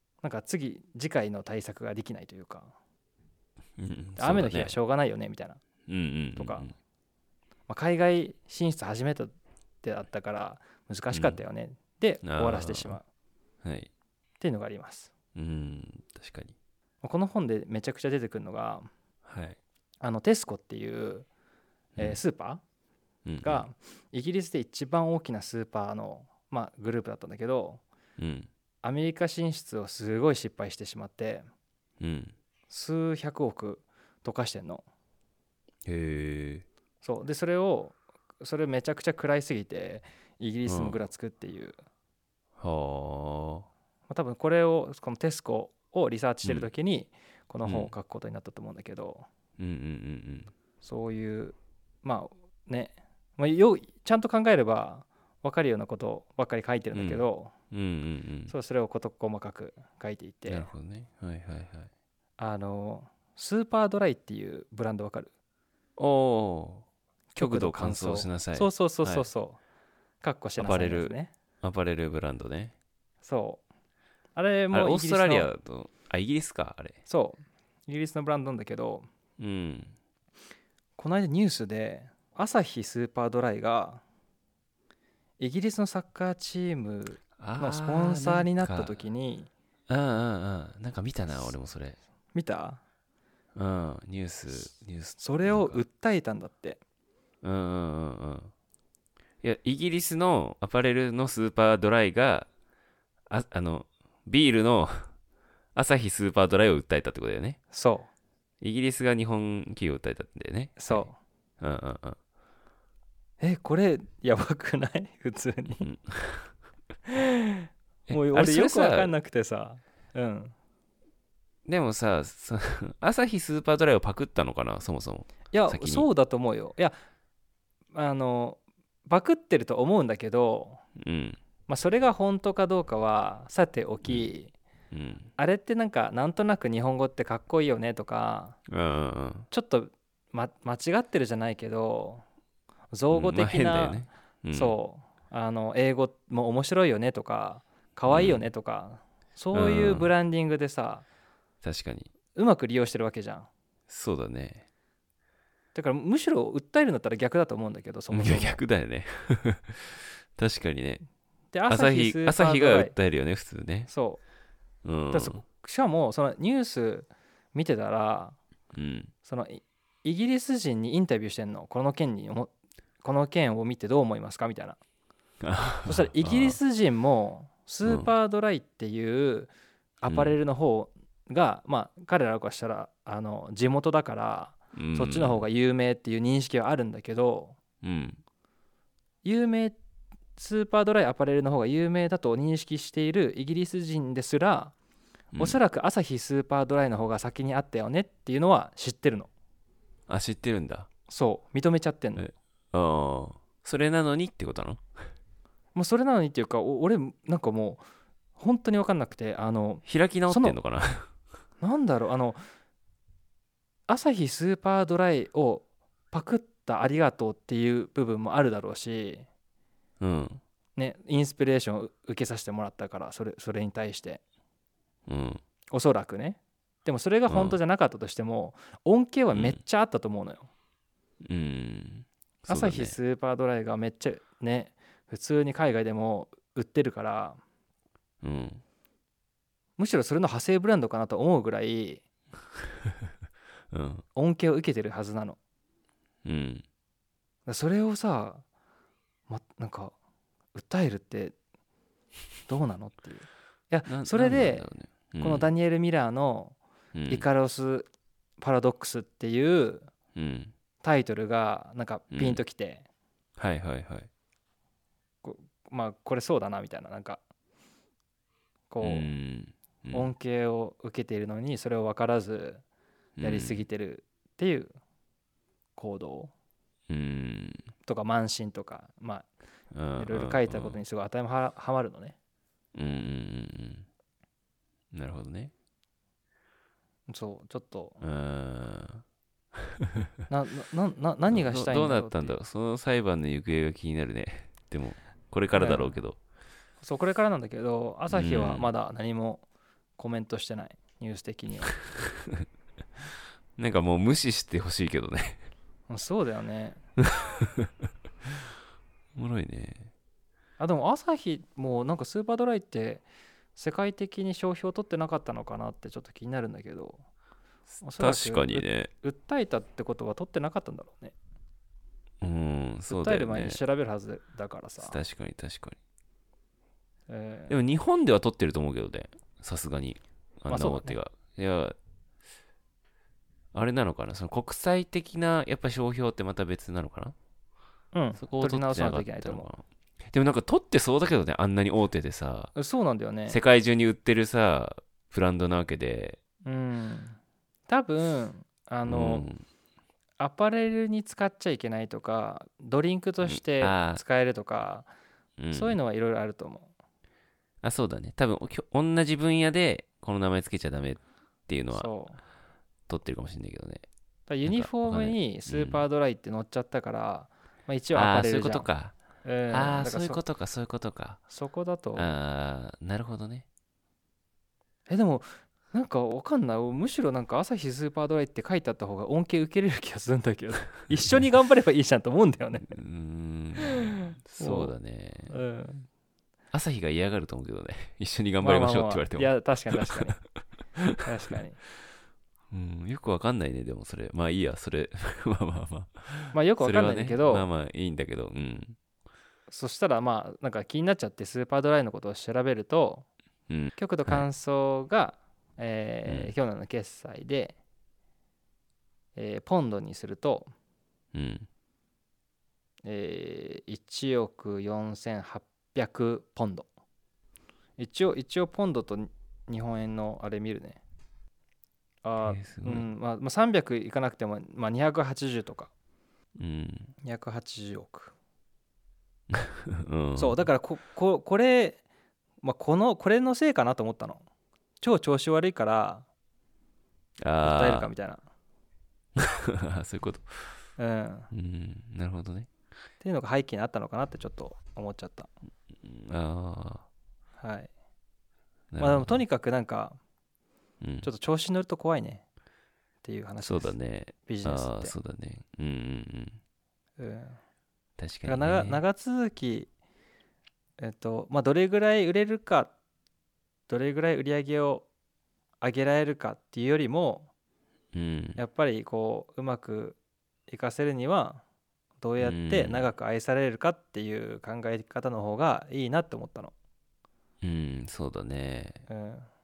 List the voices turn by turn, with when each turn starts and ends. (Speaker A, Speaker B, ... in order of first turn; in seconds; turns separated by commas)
Speaker A: 0.2-2.7, Speaker B: 3.8-4.8, Speaker A: 4.2-5.6, Speaker B: 5.9-6.7, Speaker A: 6.3-6.7, Speaker A: 7.7-13.0, Speaker B: 11.1-11.4, Speaker B: 12.2-13.0, Speaker B: 13.6-13.9, Speaker A: 14.4-15.1, Speaker B: 15.3-16.5, Speaker A: 17.0-18.9, Speaker B: 19.2-19.6, Speaker A: 20.0-21.3, Speaker A: 22.0-22.6, Speaker B: 23.2-23.6, Speaker A: 23.4-27.8, Speaker B: 28.2-28.5, Speaker A: 28.8-31.5, Speaker B: 32.0-32.3, Speaker A: 32.7-34.8, Speaker B: 35.9-36.6, Speaker A: 37.0-41.8, Speaker B: 40.6-41.0, Speaker B: 42.6-43.7, Speaker A: 44.1-49.3, Speaker B: 46.4-46.7, Speaker B: 47.6-47.9, Speaker B: 49.6-50.5, Speaker A: 50.8-57.5, Speaker B: 56.9-58.5, Speaker A: 58.5-60.7, Speaker B: 60.5-61.9, Speaker A: 62.4-65.3, Speaker B: 66.0-66.8, Speaker A: 67.3-69.6, Speaker B: 67.4-69.2, Speaker A: 70.2-71.3, Speaker B: 70.6-72.7, Speaker A: 73.2-73.6, Speaker A: 74.3-75.5, Speaker B: 74.7-77.0, Speaker A: 77.0-79.1, Speaker B: 79.4-79.9, Speaker A: 81.0-84.0, Speaker A: 85.4-89.5, Speaker B: 87.4-89.0, Speaker B: 89.9-92.0, Speaker A: 92.3-92.8, Speaker B: 93.5-95.8, Speaker A: 95.2-96.8, Speaker B: 97.4-98.5, Speaker B: 99.4-102.5, Speaker B: 103.3-105.1, Speaker B: 105.7-107.6, Speaker A: 107.7-108.1, Speaker B: 108.6-112.2, Speaker A: 110.8-111.2, Speaker A: 113.4-115.9, Speaker B: 115.8-116.5, Speaker A: 117.1-120.5, Speaker B: 118.1-119.1, Speaker B: 121.7-126.1, Speaker A: 125.5-127.0, Speaker A: 127.9-130.8, Speaker B: 131.0-131.4, Speaker A: 131.7-134.5, Speaker B: 134.9-135.3, Speaker A: 135.4-138.6, Speaker B: 138.7-139.5, Speaker A: 139.5-142.2, Speaker A: 142.9-151.1, Speaker B: 143.1-144.8, Speaker B: 148.1-148.4, Speaker B: 149.5-150.1, Speaker B: 151.6-152.1, Speaker A: 152.3-153.5, Speaker B: 153.9-154.7, Speaker A: 155.7-158.6, Speaker B: 158.1-161.0, Speaker A: 161.5-162.9, Speaker B: 161.7-163.9, Speaker A: 163.9-164.2, Speaker B: 164.8-165.4, Speaker A: 165.1-168.4, Speaker B: 168.7-169.1, Speaker A: 169.2-172.5, Speaker A: 173.0-174.8, Speaker B: 175.4-176.6, Speaker A: 175.8-179.5, Speaker B: 177.8-178.1, Speaker A: 180.0-187.6, Speaker B: 180.1-180.3, Speaker B: 184.7-185.4, Speaker B: 187.8-188.2, Speaker A: 189.2-189.8, Speaker A: 190.3-194.7, Speaker A: 195.3-199.3, Speaker B: 200.1-200.9, Speaker A: 201.1-202.3, Speaker B: 202.2-204.8, Speaker A: 205.7-207.8, Speaker A: 208.4-210.6, Speaker B: 209.8-211.1, Speaker A: 211.6-212.4, Speaker A: 213.9-219.3, Speaker B: 220.0-220.4, Speaker A: 220.8-224.2, Speaker B: 225.1-225.4, Speaker A: 225.7-230.5, Speaker B: 227.3-227.6, Speaker B: 229.3-229.6, Speaker B: 231.2-232.9, Speaker A: 232.5-237.4, Speaker B: 238.2-238.6, Speaker A: 239.8-242.0, Speaker B: 243.7-244.0, Speaker A: 244.1-245.4, Speaker B: 246.2-246.6, Speaker A: 247.4-248.4, Speaker A: 249.3-249.9, Speaker A: 250.5-251.3, Speaker A: 252.5-254.7, Speaker B: 253.9-255.5, Speaker A: 255.2-256.6, Speaker B: 256.9-257.2, Speaker A: 257.1-259.9, Speaker B: 260.1-260.5, Speaker A: 260.8-262.9, Speaker B: 262.1-262.4, Speaker B: 263.4-264.1, Speaker A: 265.2-267.2, Speaker A: 268.7-269.1, Speaker B: 268.8-270.1, Speaker A: 269.9-272.6, Speaker B: 273.2-273.6, Speaker A: 273.2-274.8, Speaker A: 275.8-276.3, Speaker B: 276.9-277.7, Speaker A: 277.8-279.3, Speaker B: 279.7-280.8, Speaker A: 279.9-282.1, Speaker B: 282.7-283.9, Speaker B: 284.9-285.5, Speaker A: 287.1-288.0, Speaker B: 288.0-289.0, Speaker A: 290.3-292.4, Speaker B: 291.3-296.2, Speaker A: 295.5-296.0, Speaker A: 296.8-299.4, Speaker B: 298.1-298.7, Speaker A: 300.0-301.7, Speaker B: 303.6-305.4, Speaker A: 305.9-306.8, Speaker B: 309.1-309.9, Speaker A: 310.6-317.0, Speaker B: 317.7-318.9, Speaker A: 317.8-321.1, Speaker B: 322.2-323.6, Speaker A: 322.9-325.0, Speaker B: 324.8-325.8, Speaker A: 327.1-327.6, Speaker B: 327.5-331.8, Speaker A: 330.5-331.0, Speaker B: 333.5-337.1, Speaker A: 337.9-339.5, Speaker B: 338.2-342.5, Speaker A: 342.5-343.4, Speaker B: 343.3-346.2, Speaker A: 346.4-349.3, Speaker B: 348.9-349.4, Speaker A: 350.2-354.9, Speaker B: 353.2-354.0, Speaker B: 355.4-355.8, Speaker A: 355.5-356.7, Speaker B: 357.6-361.9, Speaker A: 361.7-362.2, Speaker B: 362.9-363.8, Speaker A: 364.3-368.7, Speaker B: 364.4-365.8, Speaker B: 367.9-369.0, Speaker A: 369.2-370.2, Speaker B: 369.5-371.2, Speaker A: 371.3-372.1, Speaker B: 371.9-373.4, Speaker A: 374.9-382.7, Speaker B: 382.6-385.3, Speaker A: 383.6-384.7, Speaker A: 385.3-385.9, Speaker B: 386.5-390.2, Speaker A: 388.4-390.2, Speaker A: 391.0-391.6, Speaker B: 392.5-398.8, Speaker A: 396.3-397.5, Speaker A: 399.5-403.1, Speaker B: 403.5-404.2, Speaker A: 403.8-407.6, Speaker B: 406.1-406.3, Speaker A: 409.1-410.5, Speaker B: 411.1-411.5, Speaker A: 412.8-416.7, Speaker A: 417.8-420.8, Speaker A: 422.0-425.7, Speaker B: 422.2-422.9, Speaker B: 426.4-426.9, Speaker A: 427.0-428.1, Speaker B: 429.3-430.5, Speaker A: 430.1-431.8, Speaker A: 432.4-434.2, Speaker A: 434.8-436.1, Speaker B: 437.2-437.9, Speaker A: 437.4-438.2, Speaker B: 439.2-440.6, Speaker A: 440.8-441.3, Speaker B: 441.3-442.5, Speaker A: 443.0-445.3, Speaker B: 445.8-446.9, Speaker A: 447.4-447.7, Speaker B: 448.7-449.2, Speaker A: 448.8-450.0, Speaker B: 450.8-451.1, Speaker A: 451.0-452.2, Speaker A: 453.0-455.0, Speaker B: 453.4-456.4, Speaker A: 457.0-457.4, Speaker B: 458.0-458.8, Speaker A: 458.2-459.7, Speaker A: 460.8-462.7, Speaker A: 463.7-464.9, Speaker A: 465.6-467.3, Speaker B: 467.9-468.4, Speaker A: 468.4-471.4, Speaker A: 472.0-476.5, Speaker B: 472.2-472.9, Speaker B: 477.4-478.9, Speaker A: 478.9-479.3